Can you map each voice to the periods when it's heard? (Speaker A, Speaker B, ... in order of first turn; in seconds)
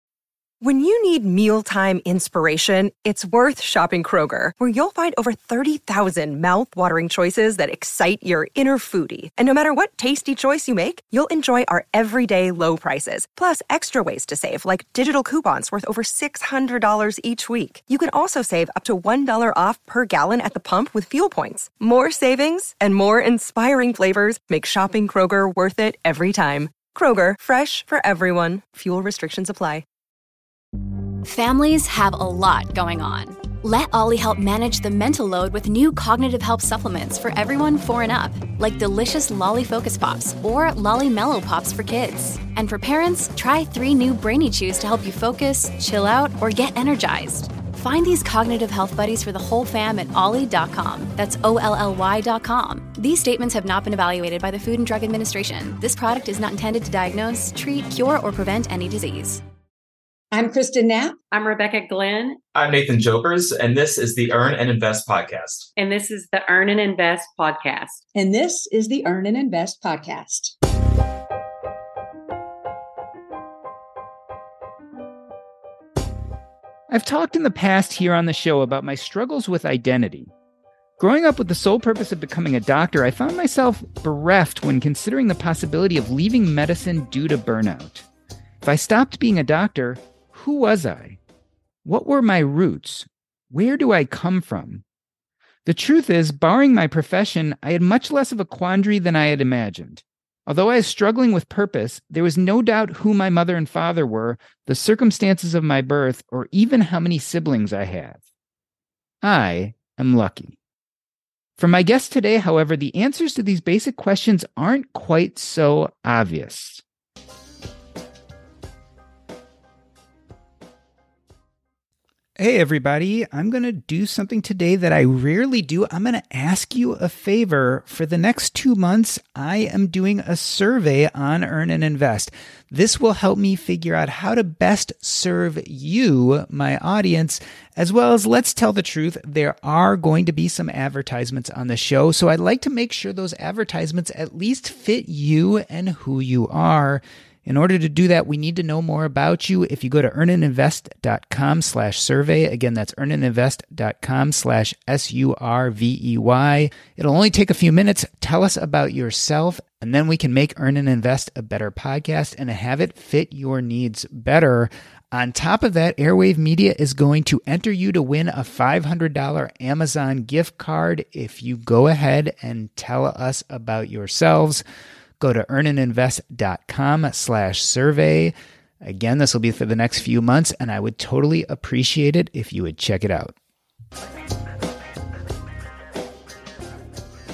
Speaker A: 0.6-29.8
Speaker B: 31.2-59.4
Speaker C: 60.3-61.1, 68.2-70.5
Speaker D: 61.3-62.4, 65.8-68.0
Speaker E: 62.5-65.7
Speaker F: 76.9-80.3, 81.0-88.1, 88.6-91.2, 91.8-94.8, 95.7-108.2, 109.2-110.6, 111.6-116.8, 122.4-174.6, 175.2-183.3